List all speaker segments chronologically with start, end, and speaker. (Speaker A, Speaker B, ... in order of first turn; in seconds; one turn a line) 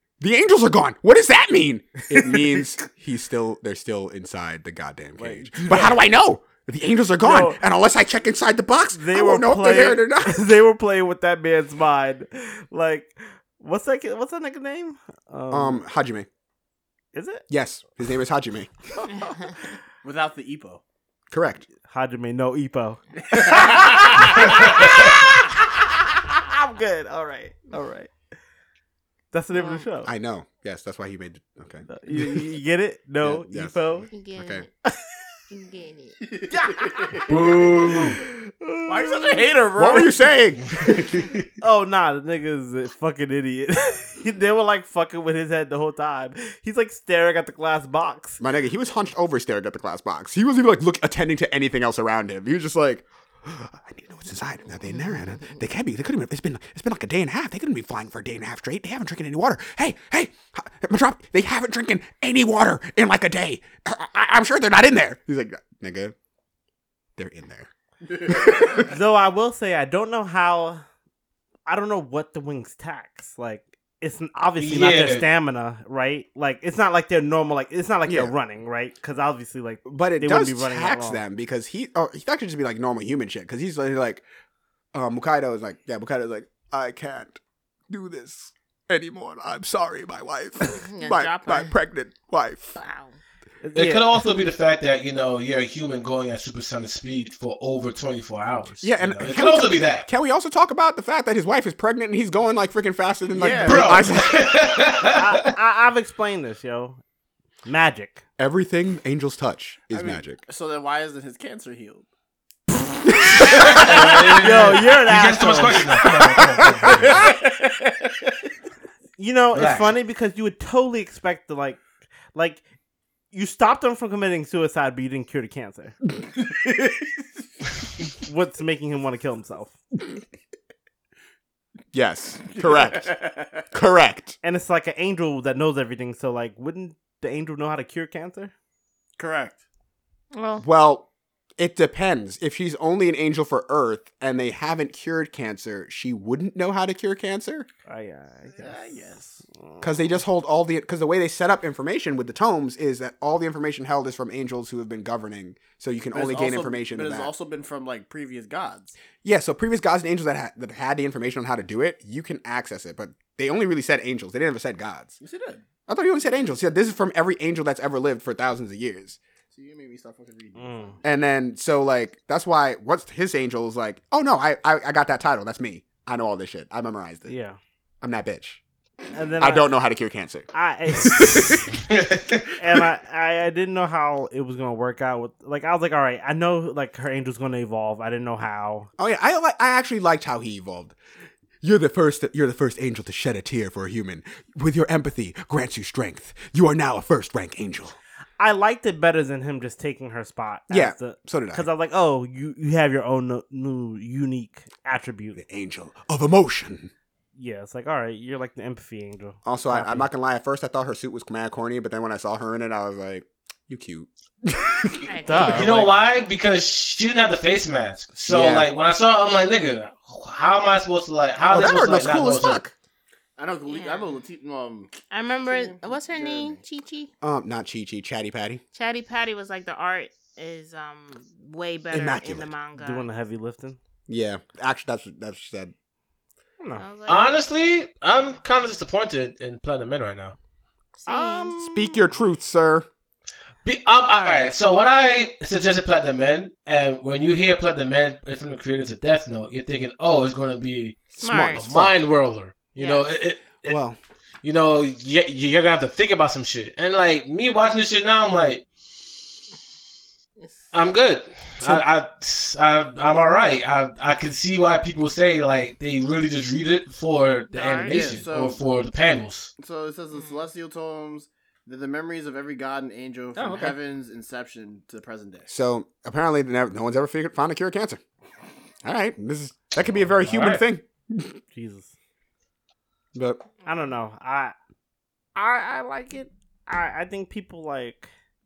Speaker A: 0.2-10.5
Speaker B: 2.1-2.6
Speaker B: 5.2-6.0
Speaker B: 7.2-7.6
Speaker B: 8.9-15.8
Speaker A: 15.5-16.3
Speaker B: 17.1-17.5
Speaker A: 17.5-18.7
Speaker C: 20.0-20.8
Speaker A: 21.3-21.7
Speaker B: 21.9-25.4
Speaker C: 23.2-24.6
Speaker D: 24.5-24.9
Speaker B: 26.3-28.1
Speaker B: 29.3-30.1
Speaker A: 30.0-32.5
Speaker B: 31.9-34.1
Speaker A: 33.2-34.7
Speaker E: 34.1-34.7
Speaker E: 35.5-36.3
Speaker C: 36.4-37.2
Speaker B: 36.5-37.4
Speaker D: 37.3-38.2
Speaker B: 37.9-39.5
Speaker C: 38.9-40.2
Speaker A: 39.8-41.3
Speaker B: 41.6-48.4
Speaker A: 48.4-66.2
Speaker A: 67.2-67.7
Speaker C: 68.1-68.6
Speaker A: 68.2-68.9
Speaker B: 68.8-70.8
Speaker B: 71.7-81.2
Speaker D: 74.6-75.3
Speaker A: 78.1-78.3
Speaker A: 79.9-84.2
Speaker A: 84.9-92.8
Speaker E: 90.7-91.7
Speaker E: 92.8-93.2
Speaker B: 93.6-94.1
Speaker D: 93.8-100.0
Speaker A: 98.8-104.5
Speaker C: 103.3-104.0
Speaker D: 103.6-105.4
Speaker B: 105.1-107.0
Speaker B: 107.7-108.2
Speaker A: 108.4-110.4
Speaker C: 109.9-112.1
Speaker A: 113.1-113.9
Speaker D: 113.4-117.2
Speaker C: 113.6-114.7
Speaker B: 114.4-115.8
Speaker C: 116.0-118.3
Speaker A: 116.6-117.3
Speaker B: 119.2-121.8
Speaker D: 119.5-119.9
Speaker B: 122.3-122.6
Speaker B: 123.3-126.0
Speaker C: 126.6-127.1
Speaker B: 128.2-129.8
Speaker A: 131.9-133.2
Speaker C: 132.6-133.7
Speaker A: 133.7-134.4
Speaker B: 134.4-138.5
Speaker C: 139.2-139.6
Speaker E: 140.3-140.7
Speaker A: 140.6-147.7
Speaker B: 147.9-149.0
Speaker C: 148.6-149.4
Speaker B: 149.5-150.2
Speaker A: 149.8-157.3
Speaker C: 156.1-159.0
Speaker A: 159.2-165.2
Speaker C: 165.2-165.6
Speaker A: 165.9-169.2
Speaker C: 169.5-171.0
Speaker B: 170.6-171.0
Speaker A: 171.0-177.3
Speaker B: 177.3-177.6
Speaker A: 178.0-178.6
Speaker B: 179.1-179.8
Speaker A: 179.4-181.8
Speaker B: 180.5-181.7
Speaker D: 181.9-182.4
Speaker B: 182.6-188.9
Speaker A: 189.0-191.0
Speaker A: 191.6-198.0
Speaker B: 198.4-205.4
Speaker A: 200.7-201.7
Speaker A: 205.4-206.9
Speaker B: 207.4-210.1
Speaker A: 209.4-215.1
Speaker E: 215.1-215.8
Speaker B: 215.2-215.9
Speaker D: 215.5-222.6
Speaker A: 218.3-218.7
Speaker A: 221.5-222.7
Speaker C: 223.4-224.9
Speaker E: 223.7-224.2
Speaker E: 225.1-227.1
Speaker C: 225.5-226.6
Speaker A: 227.2-228.6
Speaker E: 228.8-233.1
Speaker A: 231.9-232.5
Speaker B: 232.8-233.8
Speaker A: 234.1-235.7
Speaker E: 236.7-237.4
Speaker D: 237.1-240.4
Speaker E: 241.0-241.6
Speaker B: 241.1-242.1
Speaker A: 241.5-242.9
Speaker D: 243.7-253.8
Speaker E: 244.1-244.5
Speaker A: 251.1-251.9
Speaker E: 251.2-251.7
Speaker E: 252.8-253.1
Speaker A: 253.7-254.0
Speaker D: 254.4-258.6
Speaker D: 260.7-269.5
Speaker E: 267.5-268.2
Speaker C: 267.9-268.6
Speaker C: 269.6-275.5
Speaker E: 270.1-270.5
Speaker A: 273.4-273.7
Speaker B: 273.4-273.7
Speaker A: 275.5-278.0
Speaker A: 278.8-281.4
Speaker D: 280.2-280.6
Speaker B: 281.5-281.9
Speaker A: 283.1-283.4
Speaker B: 283.6-284.5
Speaker B: 285.4-288.1